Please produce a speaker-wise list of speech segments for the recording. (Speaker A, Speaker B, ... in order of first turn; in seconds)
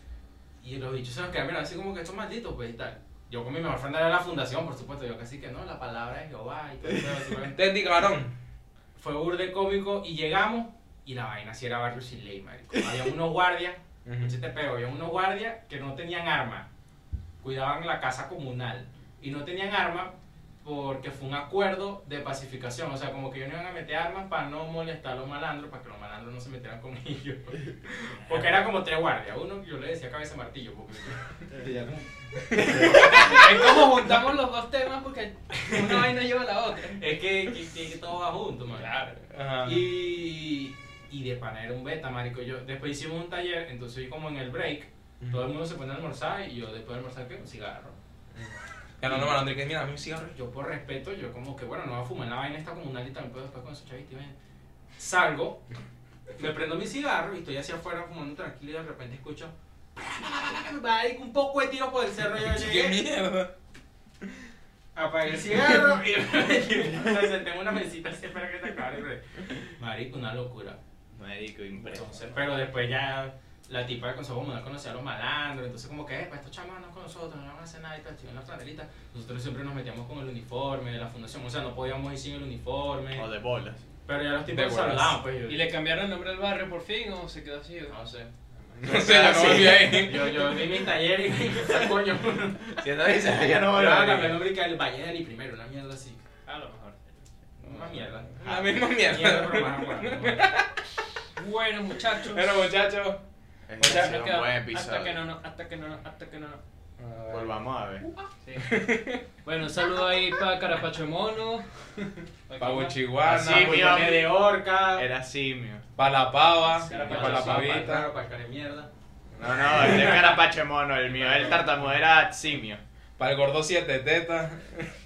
Speaker A: 0.6-7.6, 8.9-16.7, 17.4-32.1, 32.6-33.3, 35.7-36.0, 37.0-38.9, 39.6-48.0, 49.0-49.4, 50.2-54.4, 55.0-55.6, 56.4-63.0, 65.0-70.8, 71.8-83.3, 84.1-85.6, 87.9-88.3, 89.4-92.8, 93.7-96.2, 97.6-100.5, 113.2-115.1, 116.8-118.9, 119.7-120.5
Speaker B: 7.4-8.3, 14.1-14.4, 32.5-33.1, 39.3-39.9, 45.2-45.5, 48.4-50.3, 62.4-63.5, 84.5-85.2, 88.8-90.3, 98.4-100.8, 102.2-103.2, 103.8-104.2, 107.0-109.2, 112.6-113.9, 116.0-118.1, 119.4-120.1, 123.2-124.9
Speaker C: 32.6-33.4, 71.1-72.4, 83.1-83.8, 88.8-90.4, 92.7-94.4, 103.7-105.2, 107.3-108.0, 113.2-114.4, 114.9-115.8, 119.4-122.8
Speaker D: 32.9-37.0, 38.8-39.2, 85.5-88.0, 96.5-97.2, 101.4-102.5, 103.8-106.6, 108.4-108.8, 109.4-112.9, 116.8-117.8, 121.2-121.7